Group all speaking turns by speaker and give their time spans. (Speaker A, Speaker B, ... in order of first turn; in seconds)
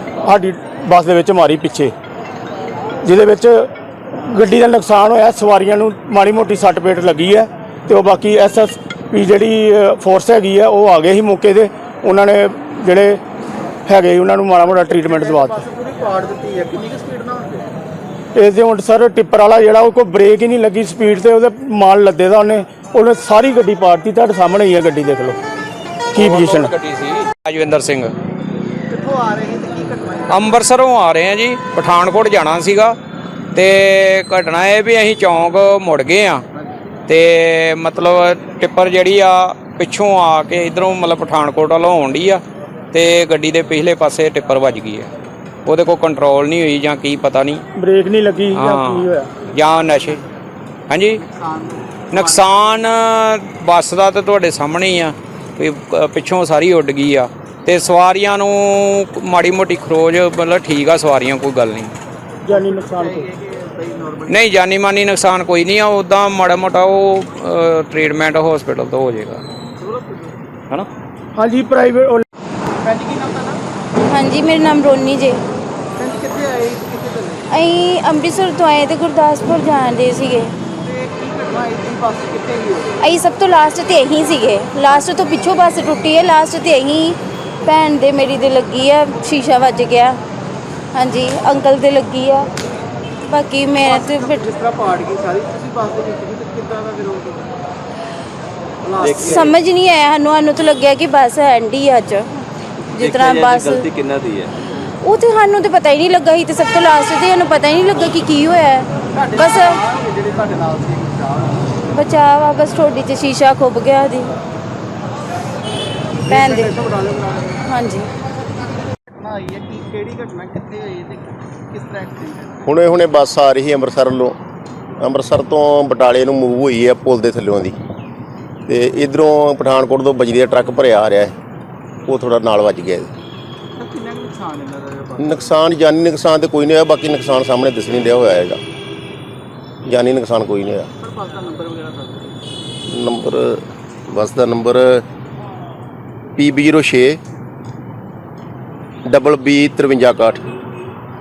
Speaker A: 0.2-1.9, 3.0-3.7, 4.2-13.2, 13.8-15.6, 18.4-25.4, 26.2-26.7, 47.8-49.3, 62.5-63.2, 71.4-72.2
Speaker B: 15.0-17.7, 28.9-30.6, 49.6-50.2, 51.1-52.8, 62.5-64.5, 69.8-70.4, 72.8-73.6, 76.0-77.5, 80.8-83.1, 93.8-97.5, 98.8-99.5, 109.1-111.8, 116.2-117.6, 119.1-122.7, 133.8-135.5, 141.0-142.3
Speaker C: 26.1-28.1, 30.3-32.9, 33.5-36.4, 37.1-42.4, 42.9-45.1, 45.6-47.6, 48.5-50.2, 50.9-51.2, 52.1-61.9, 64.3-69.4
Speaker D: 74.1-75.4, 77.5-80.5, 83.0-90.2, 90.9-92.5, 93.2-94.5, 99.2-103.9, 105.0-109.8, 111.9-114.3, 116.3-116.7, 117.7-118.1
Speaker E: 99.0-99.5, 103.0-104.5
Speaker F: 122.7-124.4, 125.0-127.7, 128.7-131.3, 132.1-133.1, 135.2-138.6, 139.8-140.9, 142.9-145.0, 146.4-147.2, 149.1-150.5